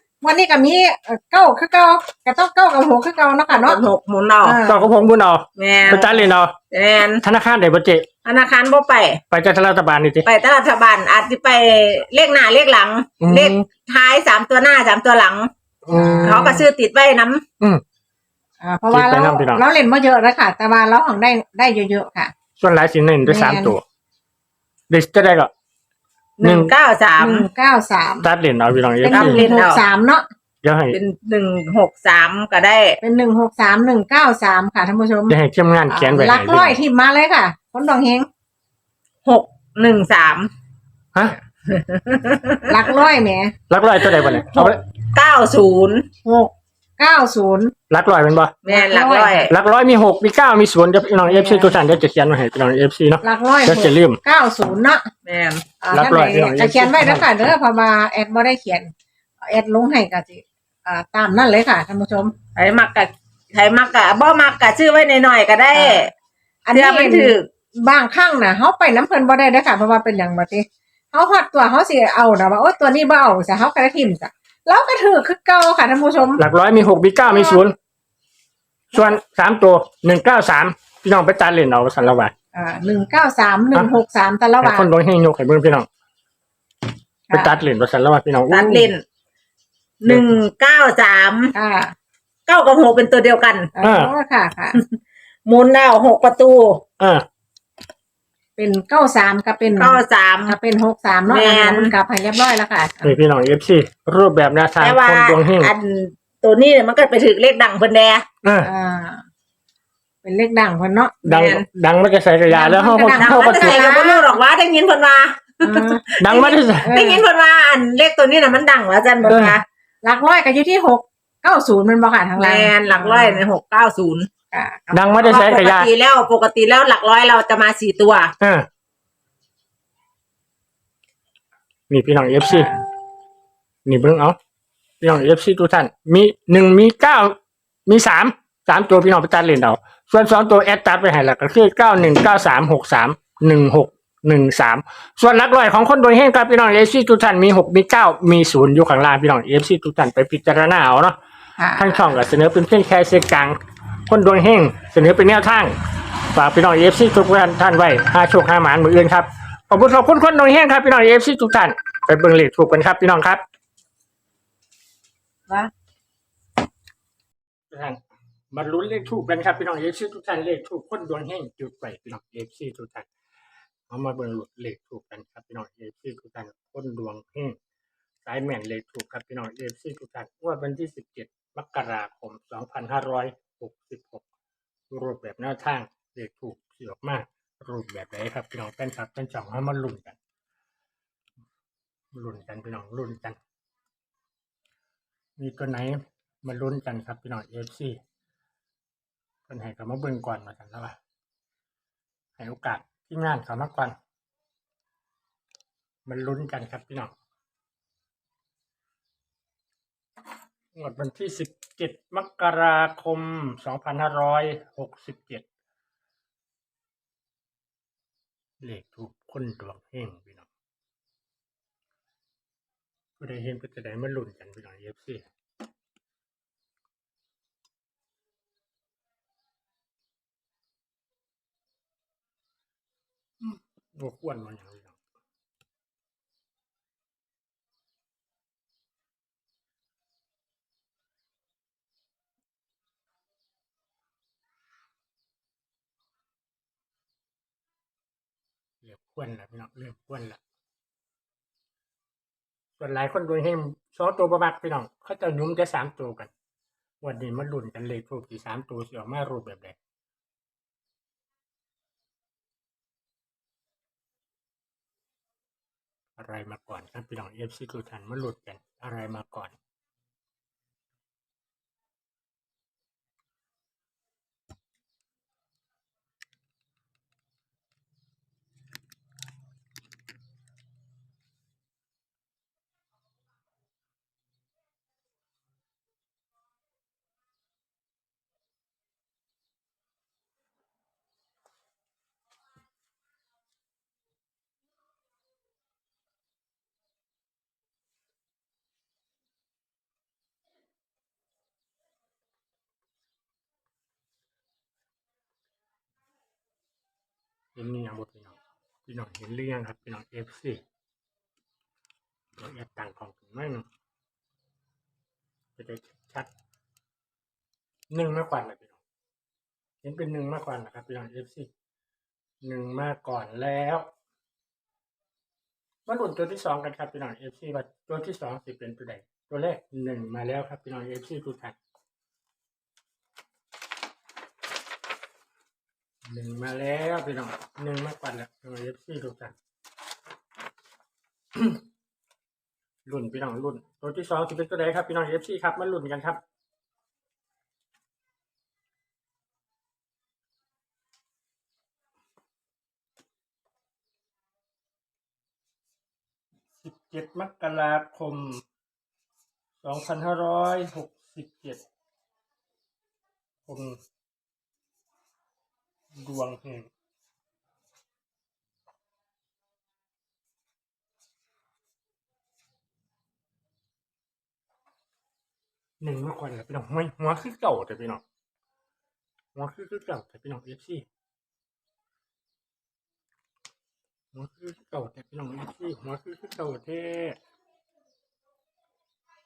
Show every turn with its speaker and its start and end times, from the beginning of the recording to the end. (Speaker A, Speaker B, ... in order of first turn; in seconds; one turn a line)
Speaker A: 0.2-3.8
Speaker B: 3.5-4.6
Speaker A: 4.4-4.9
Speaker C: 4.6-6.5
Speaker B: 5.6-7.2
Speaker C: 7.2-8.1
Speaker B: 8.2-9.2
Speaker C: 9.3-10.3
Speaker B: 10.2-15.5
Speaker C: 13.2-13.7
Speaker C: 15.8-16.6
Speaker A: 15.9-16.3
Speaker B: 16.2-17.4
Speaker A: 18.6-22.3
Speaker C: 18.9-19.6
Speaker C: 22.6-23.8
Speaker A: 23.2-23.8
Speaker C: 24.9-25.5
Speaker B: 26.4-27.5
Speaker C: 26.4-26.7
Speaker A: 27.2-28.3
Speaker C: 28.2-29.4
Speaker A: 29.0-30.3
Speaker B: 29.1-29.8
Speaker C: 30.6-31.0
Speaker B: 30.9-33.0
Speaker A: 33.0-35.4
Speaker C: 35.3-36.8
Speaker A: 35.9-38.3
Speaker B: 39.2-40.5
Speaker B: 41.7-42.9
Speaker A: 42.7-43.5
Speaker C: 43.7-44.8
Speaker B: 44.3-46.1
Speaker A: 46.2-47.7
Speaker C: 47.9-48.5
Speaker B: 48.6-49.5
Speaker A: 48.7-49.5
Speaker C: 49.5-54.2
Speaker A: 51.2-51.8
Speaker A: 53.2-55.1
Speaker B: 55.3-55.6
Speaker A: 55.8-62.4
Speaker C: 55.9-57.4
Speaker B: 62.5-66.1
Speaker A: 65.7-66.1
Speaker A: 66.7-76.4
Speaker B: 66.7-67.5
Speaker C: 76.4-77.8
Speaker A: 77.3-77.6
Speaker C: 78.9-82.3
Speaker A: 82.5-84.9
Speaker C: 84.6-85.9
Speaker A: 87.3-87.6
Speaker C: 87.3-88.9
Speaker B: 88.5-89.0
Speaker B: 90.0-91.5
Speaker C: 90.1-90.3
Speaker A: 91.5-92.0
Speaker B: 92.5-93.7
Speaker A: 93.8-94.8
Speaker C: 93.8-94.1
Speaker B: 94.7-96.8
Speaker C: 97.0-97.2
Speaker A: 98.6-103.2
Speaker B: 99.7-100.6
Speaker B: 101.3-101.9
Speaker C: 103.0-105.7
Speaker B: 104.8-108.2
Speaker C: 108.4-108.7
Speaker A: 108.6-109.2
Speaker A: 110.2-111.2
Speaker C: 111.2-113.9
Speaker B: 111.3-111.6
Speaker A: 112.5-114.3
Speaker B: 113.1-119.6
Speaker A: 115.6-116.2
Speaker C: 116.2-116.9
Speaker A: 116.8-117.3
Speaker C: 119.2-119.6
Speaker A: 120.0-123.5
Speaker B: 122.4-124.3
Speaker A: 124.5-125.3
Speaker C: 124.9-125.9
Speaker B: 125.2-128.3
Speaker C: 128.4-128.7
Speaker C: 131.9-132.7
Speaker C: 133.8-134.4
Speaker C: 135.0-151.2
Speaker A: 151.6-152.0
Speaker C: 151.8-163.4
Speaker C: 167.7-168.0
Speaker C: 168.5-173.1
Speaker C: 173.9-177.6
Speaker C: 178.2-184.2
Speaker C: 184.9-190.2
Speaker C: 192.1-193.4
Speaker C: 195.4-198.0
Speaker C: 199.5-201.0
Speaker C: 202.4-204.0
Speaker C: 206.1-207.1
Speaker C: 210.8-215.5
Speaker C: 218.6-220.5
Speaker C: 223.2-225.3
Speaker C: 233.4-235.0
Speaker C: 248.8-250.4
Speaker C: 252.8-256.3
Speaker C: 257.0-259.8
Speaker C: 266.2-269.6
Speaker C: 307.6-308.4
Speaker C: 308.9-310.6
Speaker C: 312.4-313.7
Speaker C: 315.6-316.3
Speaker C: 317.9-318.8
Speaker C: 319.8-321.5
Speaker C: 322.4-323.9
Speaker C: 325.9-331.6
Speaker C: 336.1-339.3
Speaker C: 342.9-346.2
Speaker C: 356.6-358.4
Speaker C: 359.6-361.6
Speaker C: 363.5-363.8
Speaker C: 365.9-366.7
Speaker C: 375.8-378.0
Speaker C: 379.4-380.9
Speaker C: 384.1-387.2